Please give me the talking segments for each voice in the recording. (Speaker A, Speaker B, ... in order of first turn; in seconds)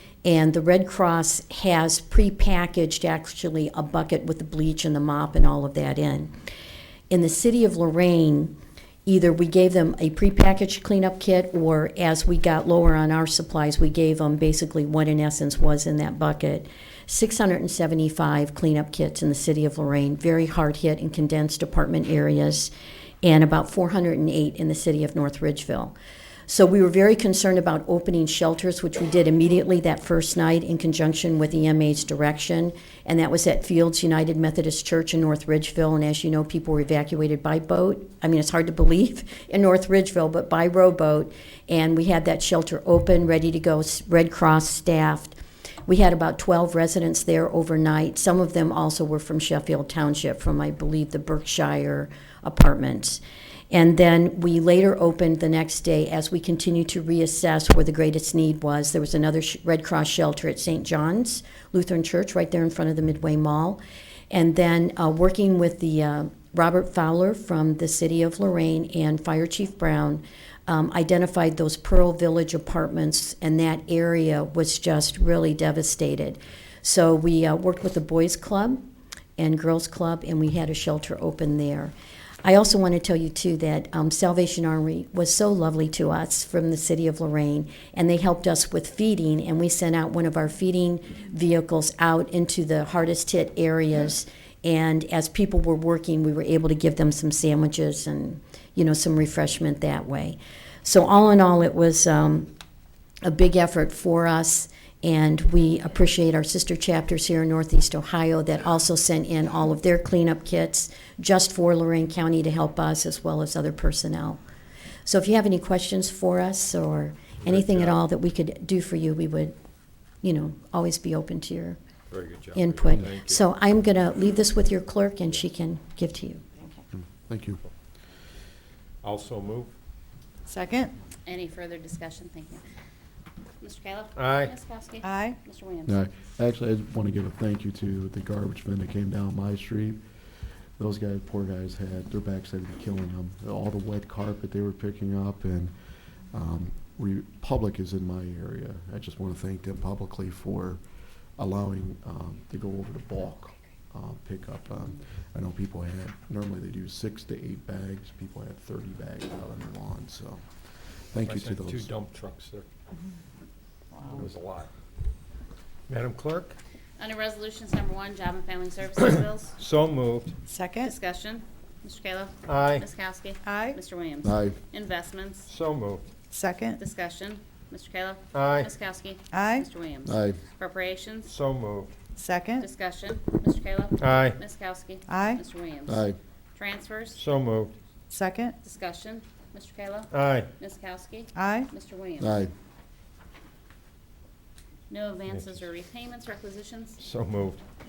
Speaker A: 0.2-6.3, 7.1-8.6, 9.1-22.7, 23.2-25.9, 26.5-63.8, 64.3-78.8, 79.4-102.5, 103.2-114.4, 115.0-119.5, 120.2-121.8, 122.5-126.4
Speaker B: 117.5-118.0, 122.1-123.4, 129.0-129.7, 134.2-134.5, 161.2-162.7, 164.0-164.7, 165.9-166.6, 169.6-170.3, 172.5-172.8, 175.5-176.1, 178.3-178.7, 181.3-181.9, 184.0-184.4, 187.2-187.7, 190.1-190.5, 195.3-195.6, 197.0-197.6
Speaker C: 126.9-127.6, 135.9-140.0, 140.8-145.8, 146.3-150.8, 151.4-160.4, 161.1-161.9, 174.2-174.6, 180.1-180.4, 185.9-186.2, 192.2-192.5
Speaker D: 130.5-130.9, 135.0-135.4, 163.9-164.3, 170.5-170.9, 173.4-173.8, 176.3-176.8, 179.3-179.7, 182.2-182.7, 185.1-185.4, 188.1-188.6, 191.3-191.7
Speaker E: 131.2-132.6, 133.6-136.0, 167.0-169.5, 170.8-175.5, 176.8-181.3, 182.6-187.2, 188.6-192.4, 194.9-197.0